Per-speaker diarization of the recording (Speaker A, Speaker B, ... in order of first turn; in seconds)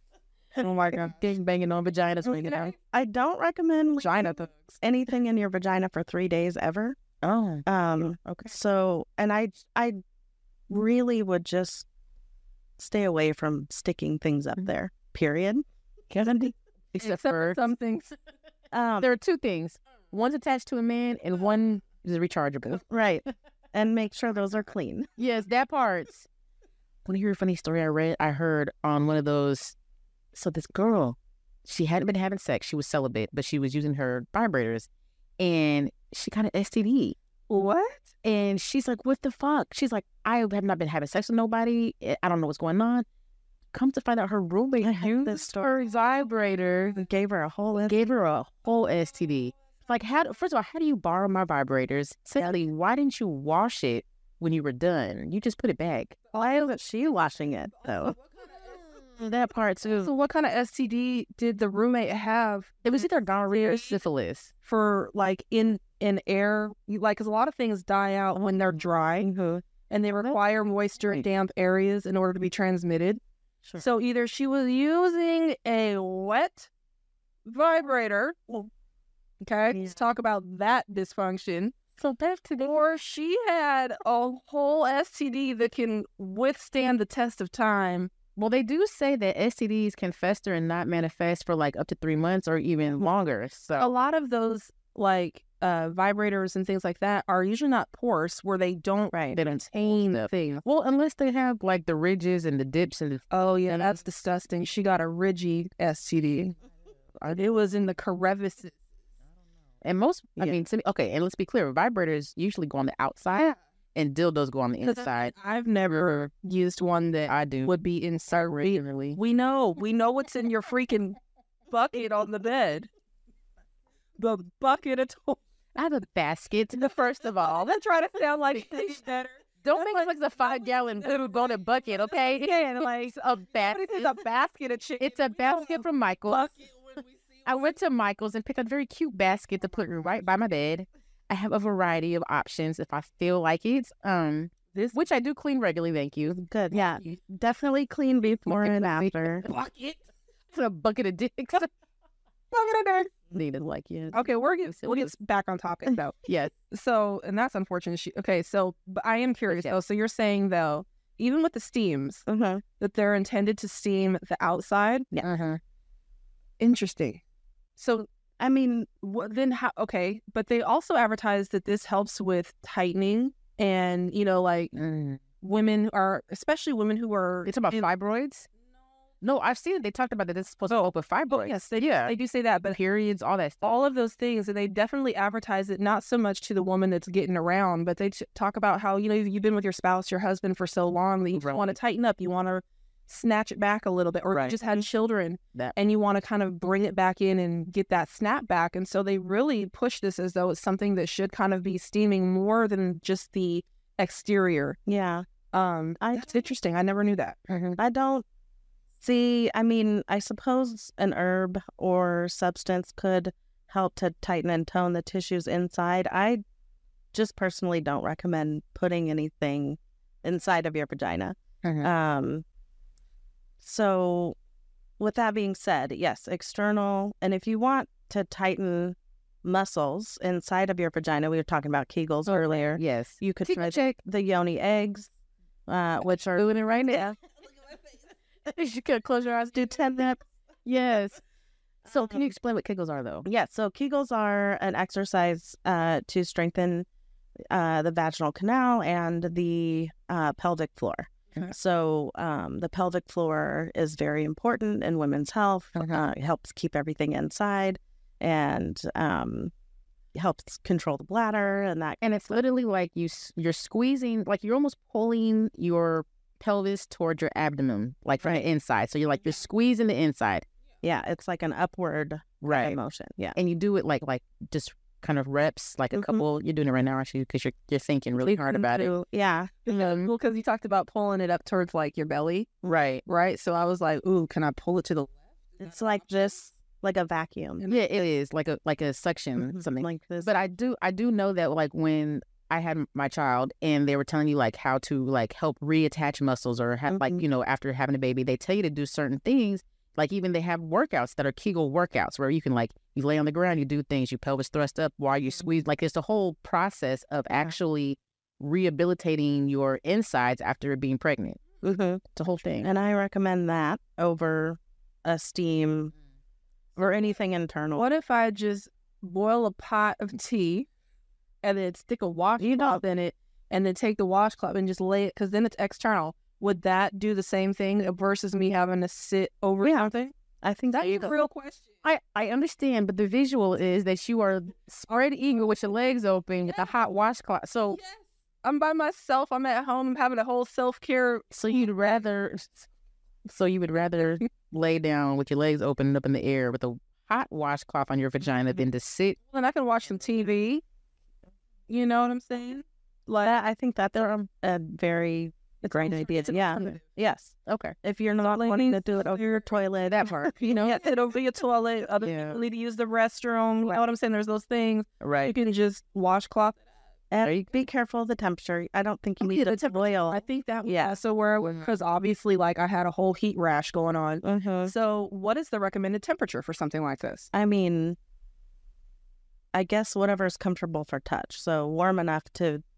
Speaker A: 0.6-1.2, 2.3-2.6, 4.0-4.7, 17.0-18.1, 37.5-38.0, 60.0-62.8, 63.5-64.0, 64.6-69.3, 69.9-73.2, 73.8-76.7, 77.5-78.7, 79.4-81.7, 82.6-88.1, 93.8-100.6, 103.3-106.5, 107.2-108.8, 114.8-121.2, 121.7-122.9, 124.2-125.4, 127.4-130.1, 132.4-132.9, 133.7-136.5, 149.4-150.0, 152.5-153.1, 154.1-162.2, 162.8-165.1, 166.6-167.2, 167.8-168.1, 169.0-174.7, 175.4-177.9, 181.3-182.8, 183.6-204.8, 205.5-207.4, 279.7-282.5, 283.0-285.1, 317.8-320.7, 321.4-330.1, 330.7-331.7, 338.4-341.2, 349.3-350.6, 351.7-352.6, 355.6-356.7, 358.2-359.3, 360.4-366.6, 369.2-377.3
Speaker B: 1.1-2.7, 7.2-7.6, 16.9-17.6, 19.0-22.8, 25.2-26.3, 27.0-29.8, 30.3-34.9, 35.4-37.1, 38.2-43.0, 43.7-47.0, 47.9-56.2, 58.5-60.1, 62.8-64.5, 82.0-82.7, 88.3-93.8, 99.3-103.2, 109.8-115.3, 117.3-117.7, 118.6-119.2, 125.7-127.7, 129.6-134.1, 135.0-136.5, 137.4-146.9, 148.5-149.5, 150.5-151.7, 153.2-155.1, 156.2-156.5, 159.5-159.7, 165.2-165.6, 174.7-175.2, 177.4-178.4, 179.2-182.1, 182.7-183.6, 191.3-191.6, 207.5-207.8, 221.6-221.9, 232.8-234.0, 236.0-237.1, 238.4-239.8, 240.6-241.2, 241.8-243.2, 262.0-270.4, 272.4-272.7, 273.3-278.9, 279.7-280.1, 282.6-283.0, 287.7-311.4, 312.1-312.7, 331.8-337.8, 341.3-342.7, 343.2-349.2, 357.4-357.8, 360.0-360.3, 362.0-362.4, 365.0-365.3, 367.2-367.5
Speaker C: 2.8-7.0, 7.7-10.0, 10.7-11.8, 12.8-16.5, 18.7-19.1, 22.8-25.1, 44.8-45.7, 47.0-48.0, 56.3-58.1, 69.2-69.6, 99.1-99.4, 146.3-149.4, 162.3-162.6, 168.4-168.9, 204.9-205.2, 206.0-206.3, 207.8-208.2, 209.0-216.4, 217.1-222.4, 223.6-224.3, 225.0-235.1, 235.7-237.1, 239.6-240.2, 243.2-246.8, 247.5-259.5, 260.1-262.0, 270.8-273.4, 275.9-276.2, 278.5-279.6, 285.6-287.6, 289.4-290.3, 296.9-297.2, 311.6-312.1, 312.6-315.9, 316.8-317.8, 322.4-322.8, 329.6-329.9, 330.4-331.2, 353.1-360.8, 367.1-370.9, 374.2-374.7, 377.3-378.0, 379.5-382.6